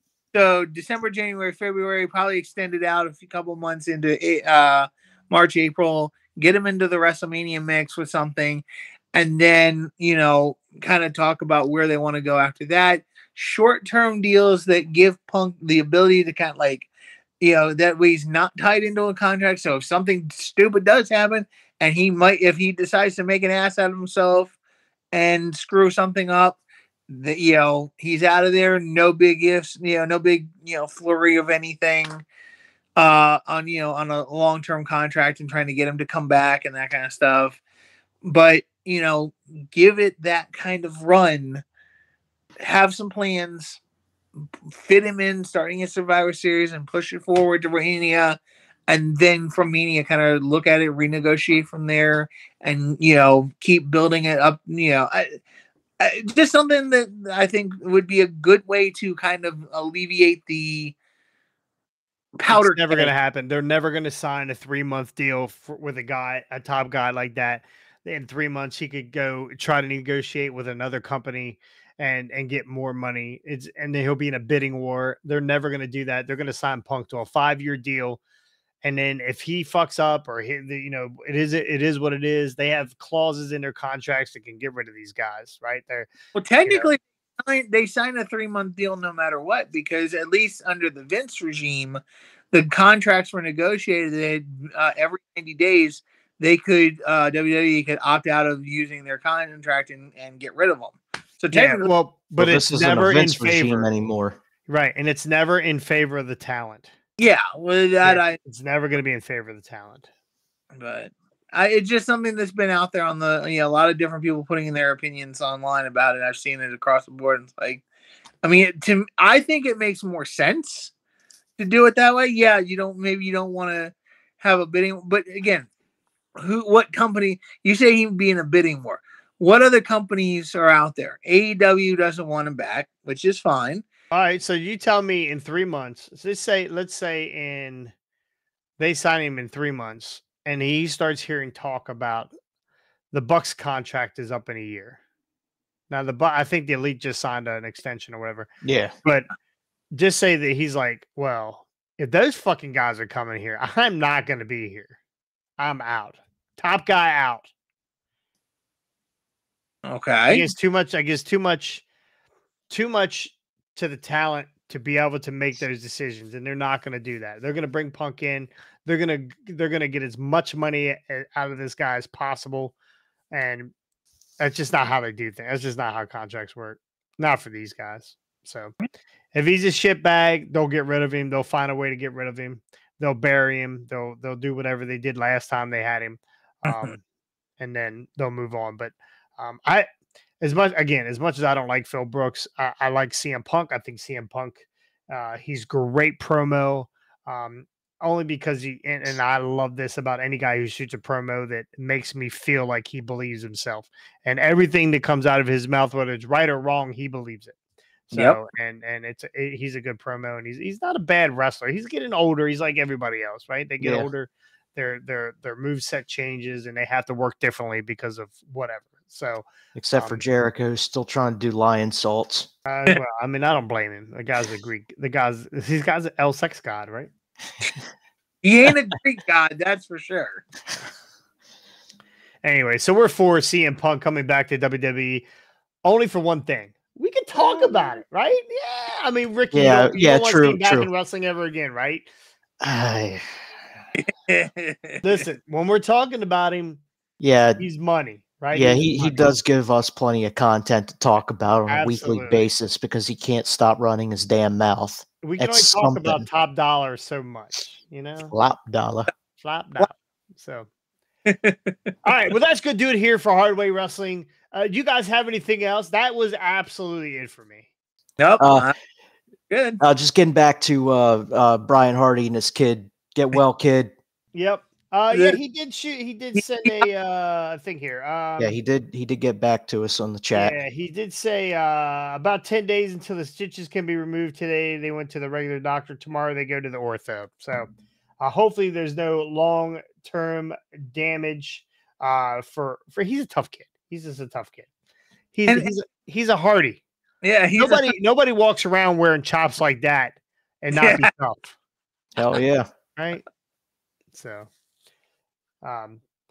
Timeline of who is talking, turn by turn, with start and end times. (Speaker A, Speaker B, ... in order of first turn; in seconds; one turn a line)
Speaker A: 0.3-16.9
Speaker A: 17.4-24.5
Speaker A: 25.1-32.2
Speaker A: 33.0-37.6
Speaker A: 38.2-41.6
Speaker A: 42.6-43.8
Speaker A: 44.7-48.4
Speaker A: 48.9-55.4
Speaker A: 56.0-60.9
Speaker A: 62.4-63.1
Speaker B: 62.5-78.2
Speaker B: 78.8-86.1
Speaker A: 86.3-92.0
Speaker B: 86.6-86.9
Speaker A: 92.5-101.9
Speaker B: 101.5-103.9
Speaker C: 102.4-104.4
Speaker B: 104.7-106.9
Speaker A: 107.2-108.4
Speaker B: 108.0-110.0
Speaker A: 110.7-117.8
Speaker A: 118.4-120.9
Speaker A: 121.6-125.7
Speaker A: 126.4-133.8
Speaker B: 134.1-137.9
Speaker B: 138.8-142.3
Speaker B: 143.1-145.0
Speaker B: 145.9-148.5
Speaker C: 148.6-148.9
Speaker B: 149.9-154.9
Speaker B: 155.6-157.5
Speaker A: 159.8-160.5
Speaker B: 160.3-161.8
Speaker B: 162.7-172.7
Speaker B: 173.3-173.7
Speaker B: 174.4-178.7
Speaker B: 179.3-187.0
Speaker B: 187.6-189.9
Speaker B: 190.4-207.5
Speaker B: 208.1-220.2
Speaker C: 213.8-214.1
Speaker C: 219.8-222.5
Speaker B: 222.7-227.1
Speaker A: 228.4-230.4
Speaker B: 232.4-235.2
Speaker B: 235.8-242.1
Speaker A: 237.4-238.0
Speaker C: 239.5-240.9
Speaker C: 242.6-243.3
Speaker A: 244.0-245.2
Speaker B: 245.0-246.8
Speaker C: 247.2-247.6
Speaker B: 247.6-249.3
Speaker C: 248.5-256.2
Speaker B: 251.7-252.4
Speaker B: 255.2-258.3
Speaker C: 258.3-259.1
Speaker B: 259.4-260.7
Speaker A: 261.2-261.9
Speaker B: 262.0-267.6
Speaker A: 268.2-268.7
Speaker C: 268.4-268.7
Speaker A: 269.5-269.8
Speaker C: 269.8-273.9
Speaker B: 274.3-278.5
Speaker A: 275.1-275.4
Speaker A: 276.4-276.7
Speaker C: 278.4-280.6
Speaker B: 280.3-287.7
Speaker B: 288.2-294.6
Speaker B: 295.3-296.8
Speaker A: 297.2-297.9
Speaker B: 297.6-301.5
Speaker A: 300.7-301.1
Speaker C: 302.1-302.7
Speaker B: 303.0-303.2
Speaker B: 304.1-304.5
Speaker B: 305.6-306.0